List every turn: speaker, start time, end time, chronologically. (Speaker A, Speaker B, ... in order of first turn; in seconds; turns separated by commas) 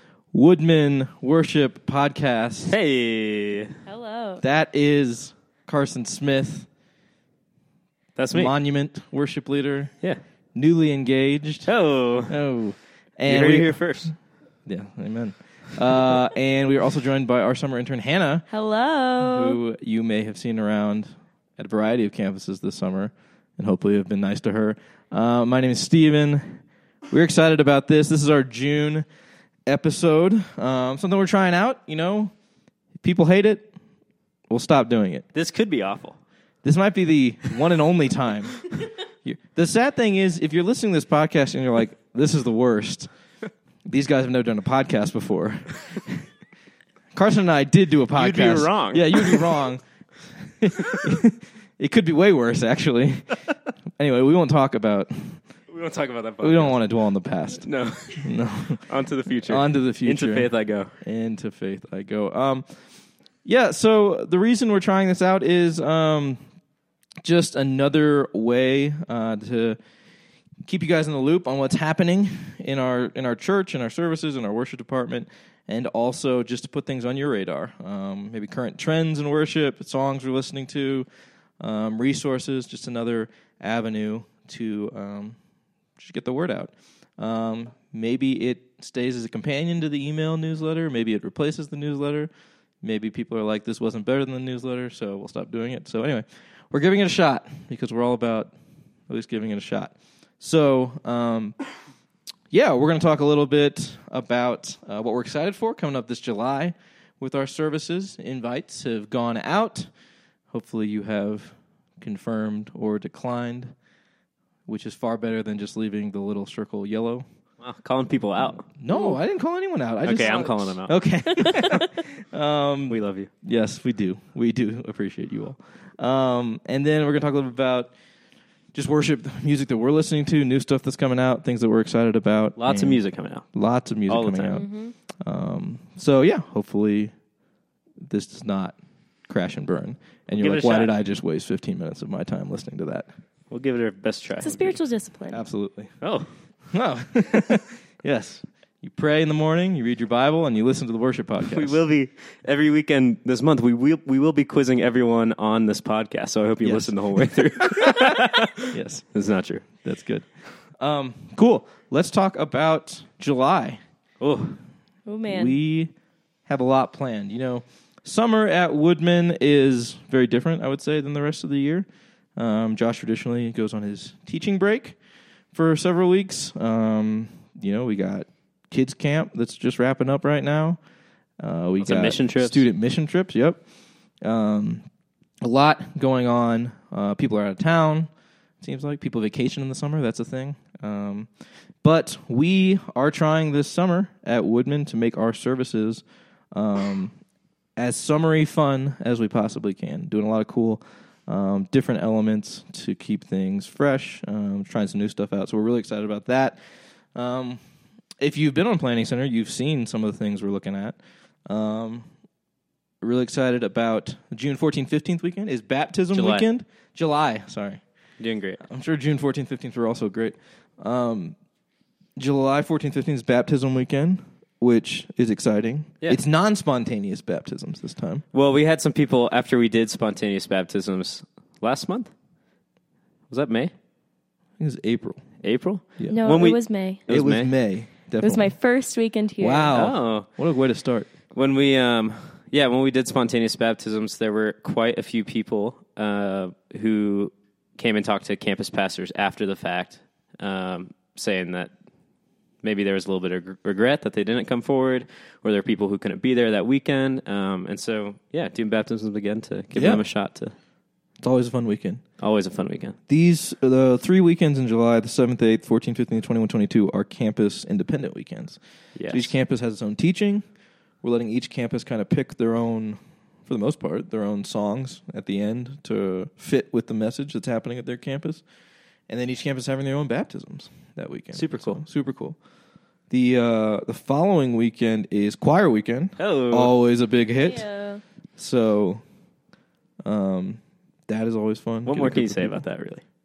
Speaker A: 0.3-2.8, Speaker B: 2.7-3.8, Speaker C: 3.9-4.4, Speaker A: 4.4-6.7, Speaker B: 8.2-8.5, Speaker A: 8.3-9.9, Speaker A: 10.5-11.7, Speaker B: 11.7-12.4, Speaker A: 12.3-14.1, Speaker B: 13.3-14.1, Speaker A: 14.7-18.5, Speaker C: 18.5-19.6, Speaker A: 19.2-29.1, Speaker A: 29.6-32.3, Speaker A: 33.0-33.7, Speaker A: 34.5-35.2, Speaker B: 35.3-36.2, Speaker A: 36.6-43.1, Speaker A: 43.9-46.3, Speaker A: 47.1-49.8, Speaker B: 48.1-49.5, Speaker A: 50.4-53.4, Speaker A: 54.0-55.4, Speaker B: 55.7-56.8, Speaker A: 56.4-57.7, Speaker B: 57.6-60.9, Speaker A: 58.2-58.8, Speaker A: 59.5-60.5, Speaker A: 61.0-62.7, Speaker A: 63.5-66.4, Speaker A: 67.2-69.8, Speaker A: 70.7-81.1, Speaker A: 81.6-85.4, Speaker A: 86.0-92.3, Speaker A: 92.8-98.5, Speaker A: 99.1-101.6, Speaker A: 102.5-109.9, Speaker A: 110.5-113.7, Speaker A: 114.7-117.2, Speaker B: 117.6-118.7, Speaker A: 118.6-127.9, Speaker C: 118.9-119.2, Speaker B: 120.0-121.8, Speaker B: 122.9-123.3, Speaker A: 128.7-133.0, Speaker B: 132.6-133.4, Speaker A: 133.5-134.7, Speaker B: 134.1-134.7, Speaker C: 134.6-134.9, Speaker A: 135.2-137.1, Speaker A: 138.0-138.8, Speaker A: 139.3-143.1, Speaker B: 140.4-140.9, Speaker B: 143.5-144.8, Speaker C: 144.4-145.4, Speaker A: 145.3-146.0, Speaker B: 146.0-146.3, Speaker A: 146.7-151.8, Speaker B: 151.5-159.7, Speaker A: 156.6-159.1, Speaker A: 159.8-160.3, Speaker A: 160.8-163.8, Speaker B: 164.2-164.6, Speaker C: 165.1-165.6, Speaker A: 165.3-165.9, Speaker A: 166.5-175.0, Speaker A: 175.5-180.8, Speaker A: 181.4-183.6, Speaker B: 181.8-182.6, Speaker A: 184.2-184.8, Speaker A: 185.4-188.1, Speaker A: 188.6-191.3, Speaker A: 191.8-197.1, Speaker A: 197.8-206.6, Speaker A: 207.2-207.6, Speaker A: 208.2-212.1, Speaker A: 213.0-217.8, Speaker B: 216.1-216.5, Speaker B: 218.2-218.6, Speaker A: 218.6-221.3, Speaker A: 222.2-228.2, Speaker B: 228.3-232.1, Speaker B: 233.3-233.7, Speaker A: 234.6-235.2, Speaker B: 235.4-237.5, Speaker A: 236.0-236.3, Speaker C: 236.1-237.0, Speaker A: 237.1-238.5, Speaker C: 238.2-239.7, Speaker A: 239.4-241.1, Speaker B: 239.7-240.3, Speaker B: 241.3-251.7, Speaker B: 252.6-260.5, Speaker A: 259.7-260.0, Speaker A: 261.2-262.0, Speaker B: 262.2-262.9, Speaker A: 263.1-270.4, Speaker B: 268.9-269.3, Speaker A: 271.0-278.4, Speaker A: 279.1-282.4, Speaker B: 281.3-281.8, Speaker A: 283.1-287.6, Speaker B: 286.2-286.7, Speaker C: 287.4-288.0, Speaker A: 288.4-289.0, Speaker A: 290.0-292.6, Speaker B: 291.9-293.0